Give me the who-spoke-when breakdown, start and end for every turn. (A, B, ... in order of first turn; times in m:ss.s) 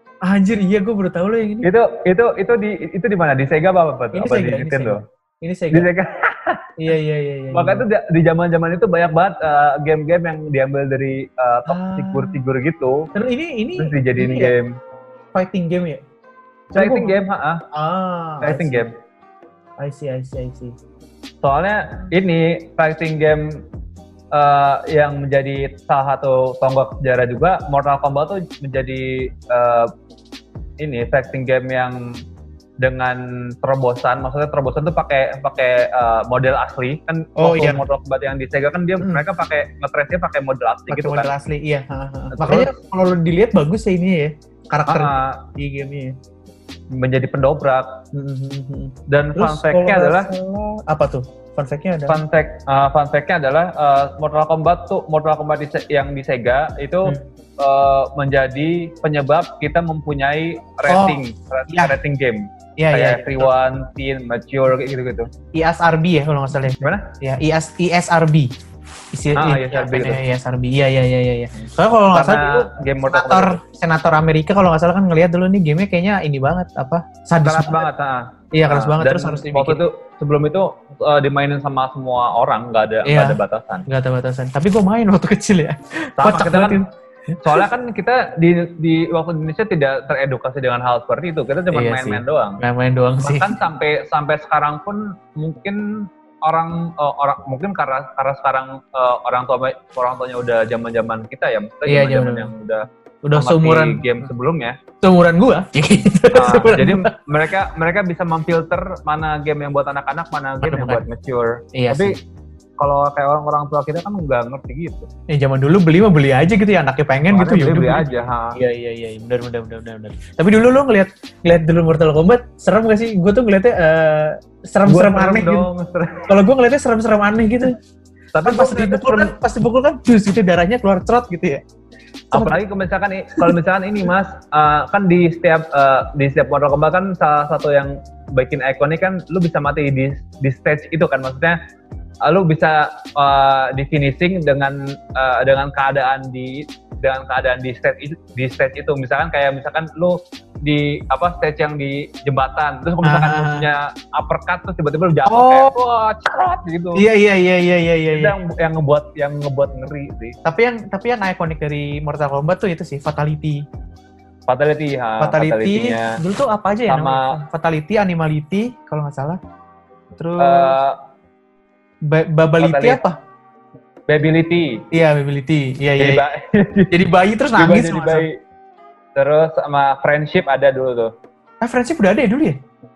0:00.2-0:01.7 A
0:01.6-0:05.0 B
0:04.1-0:05.9 A
0:05.7-0:06.7 B
0:06.8-0:07.8 A
0:07.5-0:13.1 B
0:11.7-0:12.4 A
0:13.1-0:14.6 A
0:13.8-0:14.7 B
0:15.3-0:16.0 A
0:16.7-0:17.2 A
0:16.8-0:17.6 B
0:17.7-0:18.9 A
0:18.4-0:18.9 B
0:19.8-0:20.8 A
0:21.4-0:23.6 B
0:24.3-0:29.9 B
0:30.8-0:32.0 B
0:32.8-0:41.3 B
0:37.4-0:37.8 A
0:40.9-0:46.2 A
0:42.3-0:42.7 B
0:44.9-0:45.4 B
0:46.9-0:48.0 B
0:48.1-0:52.2 A
0:49.1-0:50.3 B
0:52.1-1:05.3 B
1:00.9-1:02.0 A
1:02.8-1:03.5 A
1:05.5-1:08.5 A
1:06.8-1:07.1 B
1:09.1-1:17.9 A
1:09.4-1:10.2 B
1:12.1-1:13.6 B
1:17.4-1:23.9 B
1:18.5-1:19.8 A
1:23.0-1:27.7 A
1:26.2-1:26.8 B
1:27.4-1:32.6 B
1:31.7-1:33.6 A
1:33.2-1:44.8 B
1:41.9-1:42.5 A
1:43.2-1:44.0 A
1:45.0-1:47.1 A
1:46.3-1:52.2 B
1:50.6-1:51.0 A
1:51.8-1:52.2 A
1:52.8-1:55.1 B
1:55.3-2:05.7 A
1:57.3-1:58.6 B
2:04.9-2:06.3 B
2:06.3-2:07.8 A
2:08.3-2:09.3 B
2:08.4-2:11.6 A
2:12.3-2:12.6 A
2:12.3-2:21.6 B
2:22.2-2:37.0 B
2:33.0-2:33.7 A
2:35.3-2:35.7 A
2:37.0-2:38.4 A
2:38.1-2:40.4 B
2:40.4-2:43.6 A
2:44.5-2:46.2 B
2:45.2-2:49.4 A
2:46.9-2:47.4 B
2:50.2-2:50.8 A
2:50.4-2:51.0 B
2:52.0-2:53.2 A
2:52.6-2:53.0 B
2:54.1-2:54.8 B
2:54.9-2:56.2 A
2:56.0-2:56.9 B
2:56.9-2:58.3 A
2:57.6-2:58.4 B
2:59.2-3:01.1 B
3:01.6-3:02.6 A